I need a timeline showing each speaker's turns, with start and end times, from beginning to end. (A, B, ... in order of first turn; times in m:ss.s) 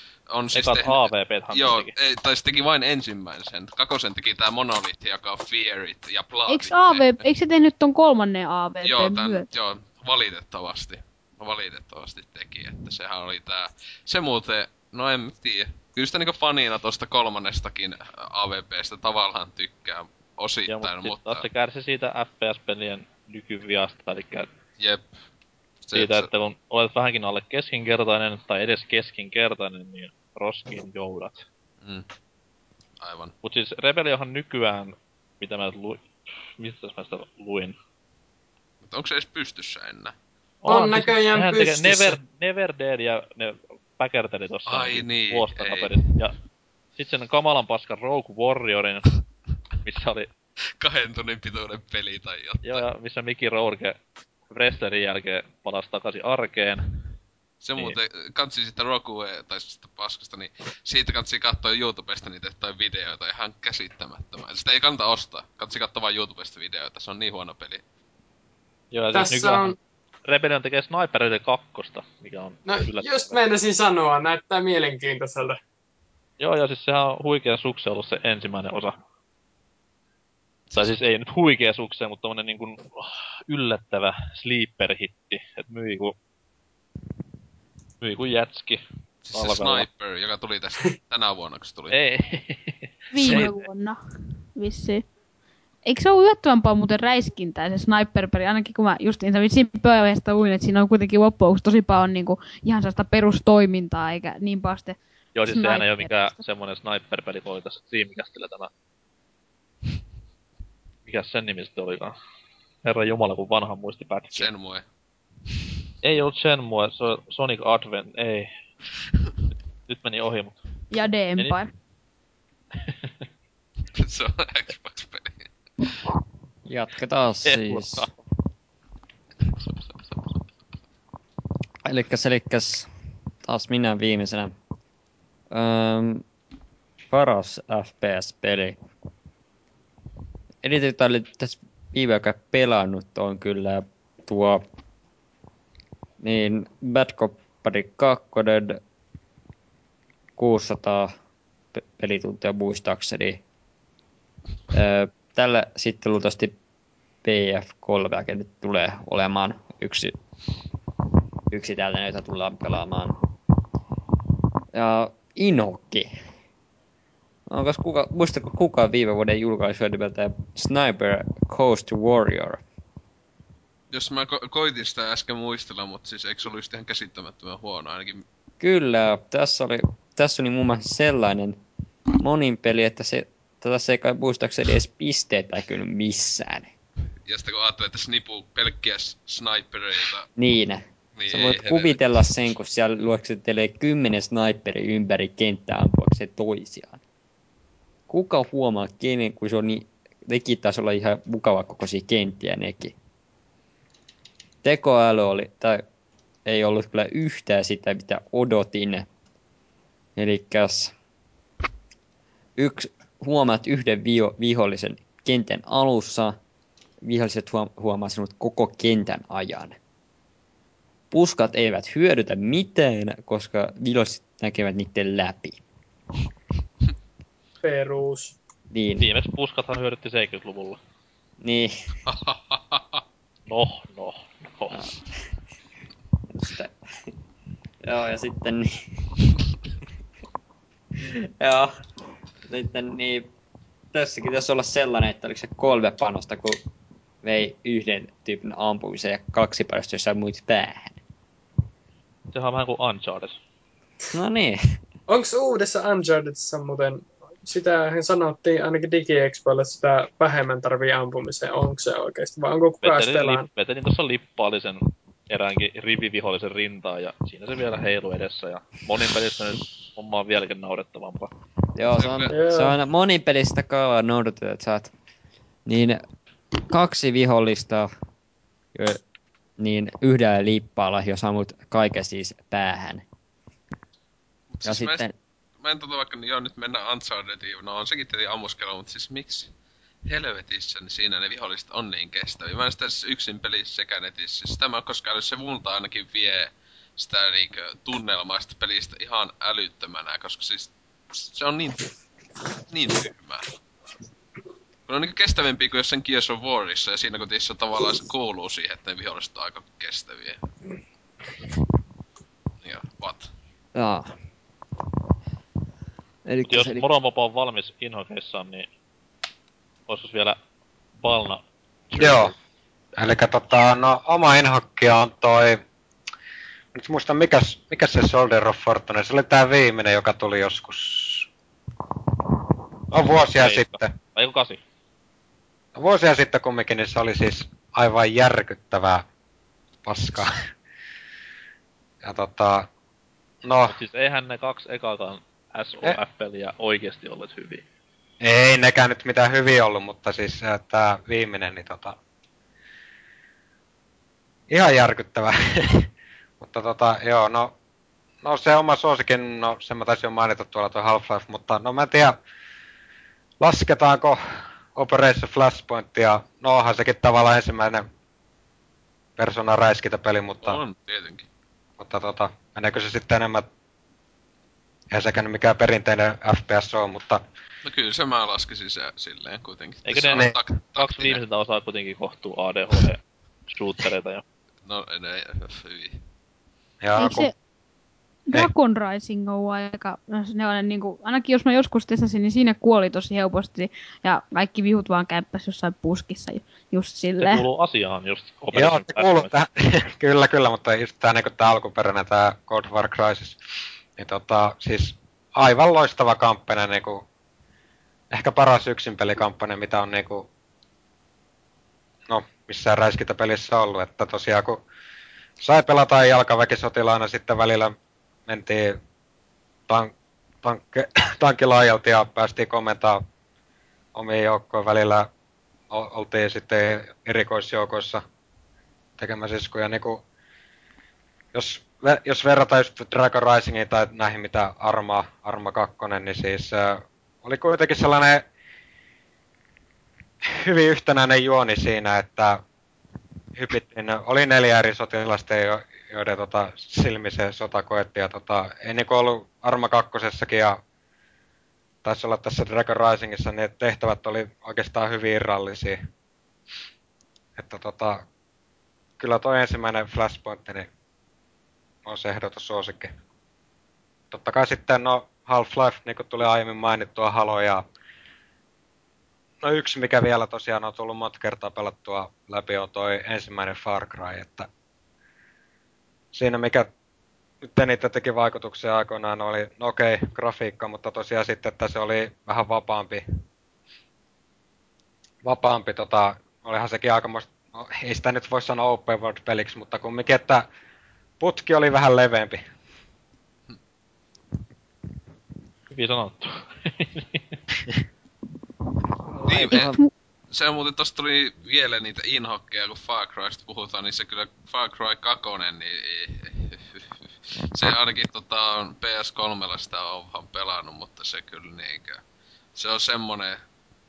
0:00.3-0:07.3 A
0:00.6-0:01.9 B
0:06.5-0:09.5 C
0:08.8-0:21.4 A
0:20.7-0:24.5 B
0:24.8-0:25.1 A
0:25.8-0:26.3 A
0:25.9-0:31.4 B
0:33.0-0:33.3 A
0:33.4-0:36.0 B
0:36.6-0:37.8 B
0:38.8-0:40.2 A
0:40.6-0:46.4 B
0:40.7-0:42.2 D
0:44.7-0:46.1 A
0:47.0-0:49.1 B
0:49.8-0:50.3 B
0:50.8-0:52.8 A
0:52.6-0:54.0 B
0:54.5-0:57.0 B
0:57.6-1:07.8 A
1:08.9-1:09.7 B
1:09.1-1:09.8 D
1:10.3-1:13.4 B
1:12.7-1:15.6 D
1:16.4-1:19.0 B
1:20.7-1:21.0 A
1:20.8-1:26.2 B
1:28.0-1:28.8 B
1:29.2-1:32.0 A
1:29.3-1:29.9 B
1:31.9-1:33.5 B
1:33.1-1:34.0 C
1:34.6-1:35.1 C
1:35.9-1:46.4 C
1:45.4-1:48.7 B
1:51.1-1:52.2 B
1:52.8-1:54.5 B
1:54.3-1:54.8 A
1:56.0-1:58.5 B
1:59.9-2:00.6 B
2:00.9-2:01.7 C
2:04.0-2:05.5 A
2:06.7-2:08.1 E
2:07.4-2:08.1 B
2:11.8-2:12.9 E
2:13.4-2:14.5 E
2:15.5-2:16.2 E
2:17.1-2:18.8 E
2:20.6-2:24.6 E
2:26.2-2:28.8 E
2:30.4-2:31.1 E
2:31.8-2:33.4 E
2:34.7-2:36.5 E
2:37.2-2:40.2 E
2:41.5-2:43.2 E
2:44.7-2:46.2 E
2:47.5-2:52.6 E
2:53.9-2:58.2 A
2:58.6-3:01.6 E
3:02.2-3:06.7 E
3:07.3-3:10.3 A
3:10.4-3:17.0 E
3:11.2-3:12.0 A
3:18.1-3:23.0 E
3:24.6-3:25.8 E
3:26.5-3:29.1 E
3:30.2-3:30.9 E
3:32.6-3:36.4 E
3:37.0-3:39.8 E
3:41.1-3:45.6 E
3:47.6-3:48.4 D
3:48.7-3:49.1 E
3:49.0-3:50.8 B
3:51.4-3:51.7 E
3:52.1-3:53.0 A
3:53.5-3:54.8 B
3:56.3-3:56.7 E
3:57.8-3:59.0 E
4:01.0-4:01.7 E
4:02.5-4:03.3 E
4:03.9-4:06.6 E
4:07.2-4:11.0 E
4:12.3-4:13.4 B
4:14.1-4:14.6 E
4:15.1-4:23.5 D
4:22.8-4:31.3 B
4:31.8-4:34.9 E
4:32.0-4:32.3 A
4:32.3-4:32.8 D
4:35.7-4:36.0 E
4:36.7-4:37.9 E
4:39.6-4:43.0 E
4:44.5-4:45.1 A
4:44.6-4:45.1 E
4:45.6-4:49.5 A
4:50.0-5:01.9 A
5:02.7-5:03.5 A
5:04.9-5:10.4 A
5:12.6-5:13.3 A
5:13.7-5:14.1 E
5:16.3-5:16.9 E
5:16.5-5:18.7 B
5:19.9-5:20.4 B
5:21.0-5:22.3 B
5:22.0-5:22.3 F
5:23.0-5:25.6 F
5:26.8-5:31.3 F
5:32.9-5:34.0 F
5:33.2-5:34.6 B
5:35.8-5:39.0 F
5:39.8-5:40.4 F
5:42.0-5:42.7 F
5:43.4-5:43.8 F
5:43.7-5:47.6 B
5:48.2-5:52.0 F
5:54.5-5:55.9 F
5:56.4-5:57.5 F
5:58.2-6:02.2 F
6:03.4-6:04.2 F
6:04.8-6:07.8 F
6:09.2-6:10.6 F
6:10.4-6:11.3 A
6:11.8-6:13.5 F
6:14.9-6:17.2 F
6:17.6-6:21.2 A
6:19.9-6:24.2 B
6:24.6-6:26.0 A
6:26.8-6:27.3 F
6:27.0-6:27.3 C
6:28.3-6:37.5 C
6:37.2-6:39.3 B
6:38.5-6:43.4 F
6:44.0-6:47.0 F
6:48.2-6:50.3 F
6:52.1-6:54.6 F
6:55.4-6:57.7 F
6:58.3-6:58.8 F
6:59.7-7:03.0 F
7:04.0-7:05.1 F
7:05.7-7:08.0 F
7:09.0-7:10.0 F
7:11.3-7:18.2 F
7:20.5-7:22.4 F
7:23.4-7:30.6 F
7:31.8-7:35.8 F
7:37.4-7:38.0 F
7:39.0-7:40.7 F
7:41.9-7:42.9 F
7:44.1-7:47.6 F
7:49.4-7:54.5 F
7:56.1-7:56.7 F
7:57.4-8:03.0 F
8:05.2-8:10.4 F
8:11.2-8:12.4 F
8:15.7-8:17.4 B
8:19.2-8:19.9 C
8:19.3-8:19.8 A
8:20.3-8:26.9 A
8:27.4-8:32.0 A
8:32.6-8:33.4 A